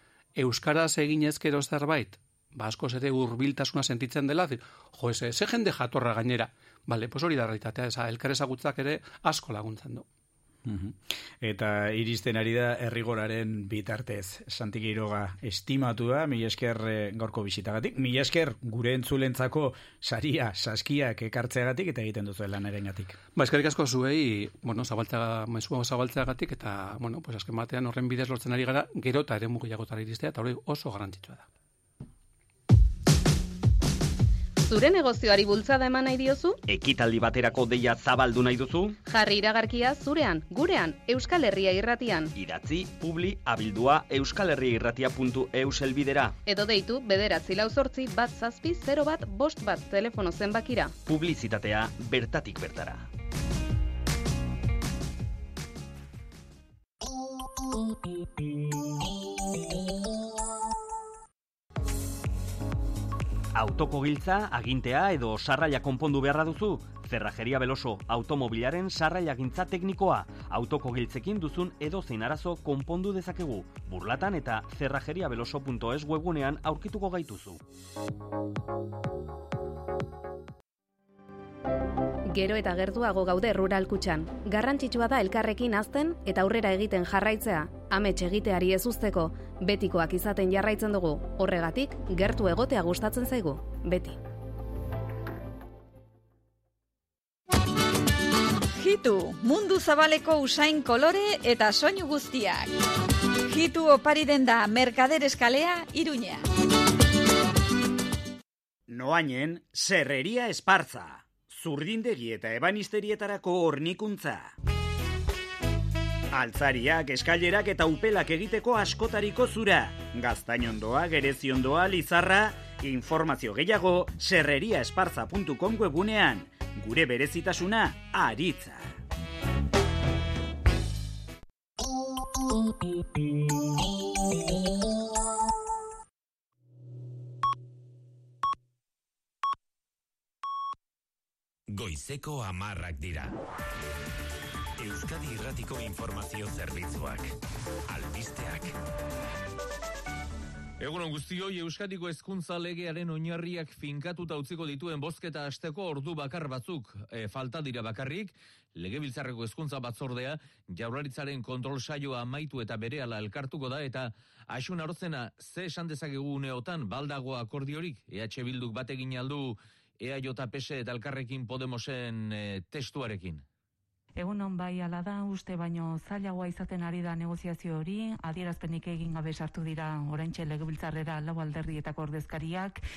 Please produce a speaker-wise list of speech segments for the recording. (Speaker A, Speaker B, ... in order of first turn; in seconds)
Speaker A: 0.4-10.1, 23.4-31.5
Speaker B: 10.7-23.2, 108.9-114.5, 116.3-129.0
Speaker C: 34.6-36.6, 39.1-42.3, 46.5-51.0, 82.3-94.2
Speaker D: 36.7-39.0, 42.4-46.4, 51.1-53.1, 63.5-77.6
Speaker E: 98.7-102.7, 103.5-106.5
Speaker F: 141.7-143.3, 144.8-147.3, 147.9-148.7
Speaker G: 150.8-173.4
Speaker H: 174.2-182.8